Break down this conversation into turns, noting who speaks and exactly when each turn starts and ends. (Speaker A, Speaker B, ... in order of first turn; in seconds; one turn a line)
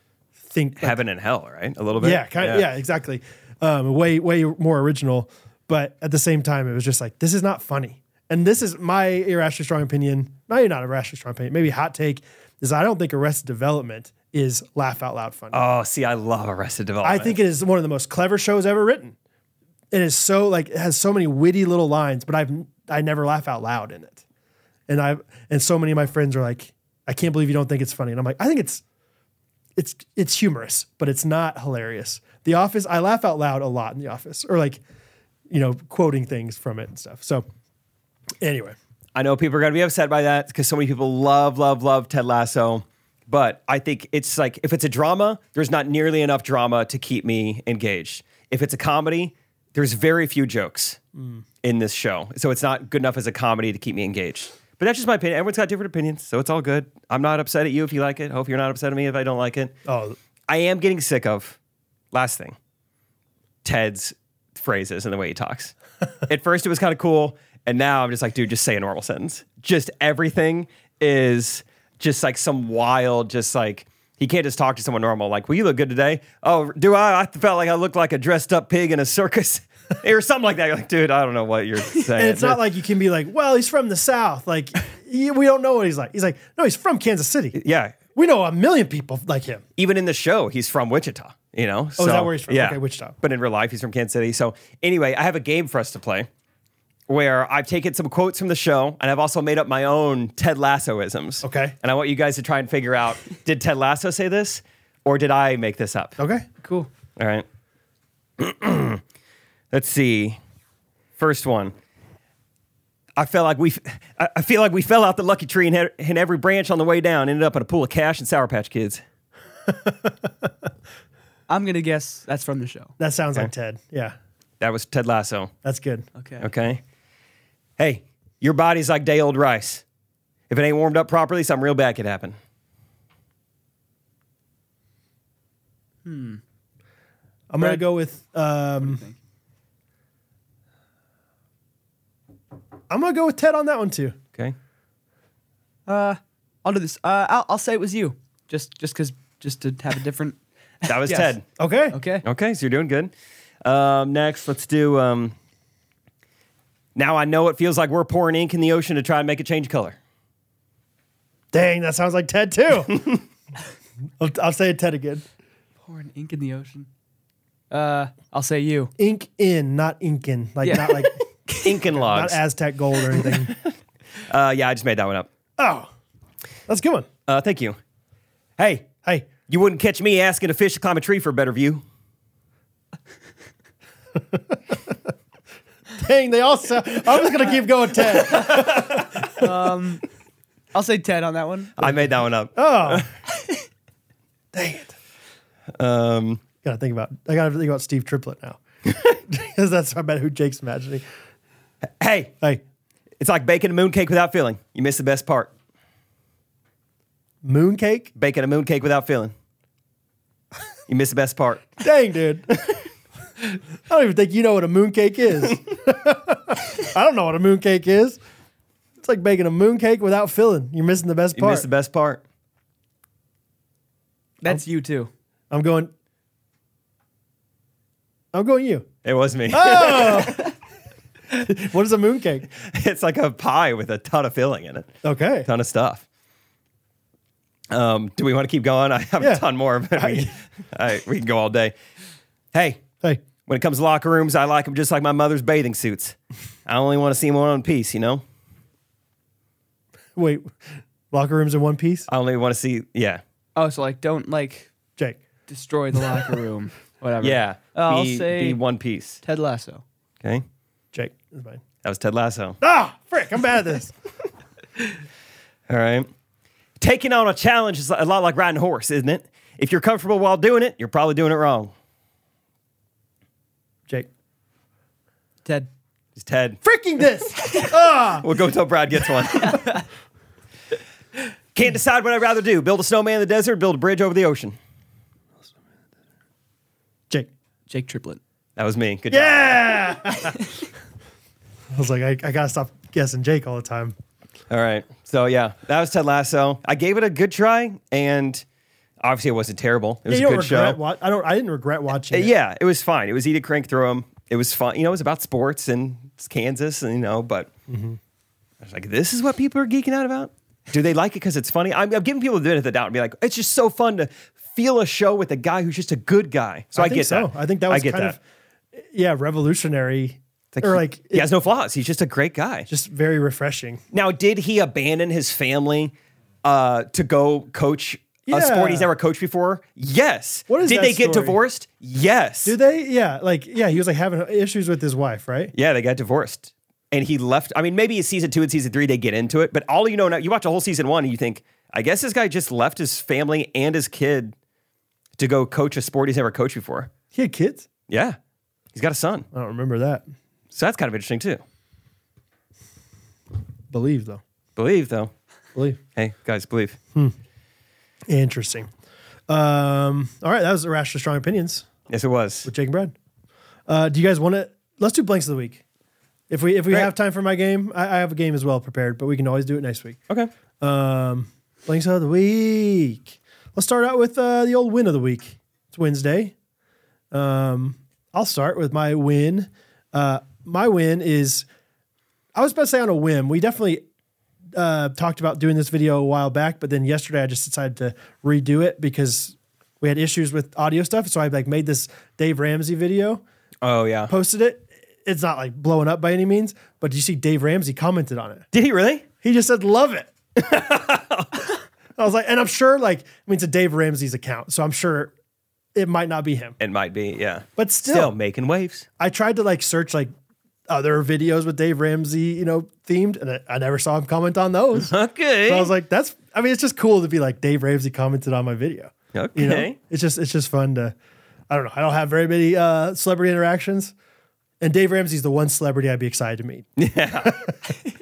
Speaker A: 0.5-1.0
Speaker B: 0.8-2.7
Speaker A: 2.0-15.6
Speaker B: 15.5-17.4
Speaker A: 17.0-19.1
Speaker A: 19.9-24.2
Speaker A: 24.9-28.8
Speaker A: 29.8-34.8
Speaker A: 35.5-37.5
Speaker A: 38.4-38.8
Speaker B: 39.1-51.0
Speaker A: 51.1-51.4
Speaker B: 51.6-59.7
Speaker A: 59.8-60.2
Speaker B: 60.5-61.6
Speaker B: 62.1-62.5
Speaker B: 63.6-65.7
Speaker B: 66.3-82.6
Speaker A: 82.2-87.6
Speaker B: 87.5-88.0
Speaker A: 88.1-89.6
Speaker B: 89.8-96.3
Speaker A: 92.0-93.2
Speaker B: 97.1-106.2
Speaker A: 101.4-101.7
Speaker A: 106.2-106.6
Speaker B: 107.2-107.5
Speaker B: 108.4-109.0
Speaker B: 109.7-110.4
Speaker B: 111.2-111.7
Speaker B: 113.2-119.0
Speaker A: 119.7-120.5
Speaker C: 121.5-122.9
Speaker A: 123.0-124.1
Speaker B: 124.6-125.5
Speaker A: 125.6-126.0
Speaker C: 126.2-126.5
Speaker B: 126.4-126.8
Speaker B: 127.8-129.8
Speaker B: 130.5-132.4
Speaker C: 136.0-136.4
Speaker A: 137.5-139.0
Speaker C: 138.8-139.2
Speaker A: 142.9-144.2
Speaker C: 145.9-151.3
Speaker B: 150.8-151.4
Speaker A: 151.6-152.0
Speaker C: 151.9-152.2
Speaker B: 152.2-153.1
Speaker B: 153.6-155.3
Speaker B: 156.9-160.0
Speaker A: 161.5-163.2
Speaker A: 164.2-165.2
Speaker C: 165.8-166.9
Speaker C: 167.7-168.9
Speaker A: 169.0-171.2
Speaker C: 170.6-171.2
Speaker B: 171.5-172.4
Speaker A: 171.8-173.5
Speaker B: 173.2-173.7
Speaker B: 174.3-175.3
Speaker A: 175.6-175.9
Speaker A: 176.7-177.1
Speaker B: 177.3-177.8
Speaker B: 178.6-178.9
Speaker A: 179.0-179.3
Speaker B: 179.5-181.8
Speaker A: 185.9-189.5
Speaker C: 189.4-190.0
Speaker C: 190.7-191.9
Speaker B: 191.8-193.1
Speaker A: 192.5-193.1
Speaker A: 194.5-194.9
Speaker B: 195.7-196.4
Speaker A: 196.6-201.0
Speaker B: 201.8-202.3
Speaker B: 203.2-205.5
Speaker A: 207.4-208.1
Speaker B: 208.2-209.3
Speaker B: 210.9-211.7
Speaker A: 211.8-212.6
Speaker A: 213.9-218.2
Speaker A: 219.0-221.7
Speaker B: 221.3-222.2
Speaker C: 224.4-225.1
Speaker A: 225.5-225.9
Speaker A: 228.3-228.9
Speaker B: 229.0-230.5
Speaker A: 229.5-230.5
Speaker A: 231.3-232.5
Speaker B: 232.5-236.0
Speaker A: 235.0-235.5
Speaker B: 237.7-241.7
Speaker A: 239.2-240.3
Speaker B: 242.5-242.8
Speaker B: 243.5-248.2
Speaker A: 250.2-250.5
Speaker A: 251.1-252.1
Speaker B: 252.1-253.2
Speaker C: 253.6-254.7
Speaker C: 255.5-258.6
Speaker B: 257.2-259.2
Speaker C: 259.2-259.8
Speaker A: 260.9-261.6
Speaker B: 261.8-262.6
Speaker A: 262.6-263.9
Speaker B: 265.7-266.1
Speaker B: 266.8-271.7
Speaker B: 276.1-276.6
Speaker A: 276.6-278.3
Speaker B: 278.2-279.6
Speaker C: 279.5-279.8
Speaker B: 281.5-284.6
Speaker C: 287.7-288.2
Speaker B: 288.6-289.9
Speaker A: 289.1-290.4
Speaker A: 291.7-293.9
Speaker B: 294.5-298.4
Speaker B: 299.0-300.8
Speaker A: 300.1-302.3
Speaker B: 302.1-307.5
Speaker A: 307.7-308.0
Speaker B: 308.6-318.2
Speaker A: 316.7-318.2
Speaker A: 318.8-321.3
Speaker B: 320.5-322.7
Speaker A: 322.7-323.8
Speaker B: 323.9-332.6
Speaker A: 328.3-328.9
Speaker A: 330.5-331.4
Speaker A: 332.4-335.5
Speaker B: 335.5-344.3
Speaker B: 345.2-346.9
Speaker A: 347.1-347.7
Speaker B: 347.9-348.2
Speaker B: 348.7-349.3
Speaker A: 349.3-350.1
Speaker B: 350.5-351.4
Speaker A: 353.7-354.2
Speaker B: 354.6-355.1
Speaker A: 355.5-355.8
Speaker B: 355.9-356.8
Speaker A: 358.1-358.7
Speaker A: 359.3-361.7
Speaker B: 361.9-362.5
Speaker A: 362.4-362.9
Speaker A: 363.7-365.6
Speaker A: 366.3-370.0
Speaker A: 370.6-376.3
Speaker A: 377.1-381.4
Speaker A: 382.3-383.8
Speaker A: 384.6-393.2
Speaker B: 393.6-394.1
Speaker A: 394.1-398.4
Speaker B: 398.5-399.0
Speaker A: 399.2-400.1
Speaker B: 400.4-401.4
Speaker A: 402.0-405.1
Speaker A: 405.7-406.6
Speaker B: 406.6-408.9
Speaker A: 407.6-408.1
Speaker A: 409.0-410.1
Speaker A: 410.7-414.9
Speaker B: 414.8-415.7
Speaker A: 415.4-420.9
Speaker B: 419.1-419.8
Speaker A: 421.5-423.9
Speaker A: 424.6-426.7
Speaker B: 426.8-427.5
Speaker A: 427.2-427.5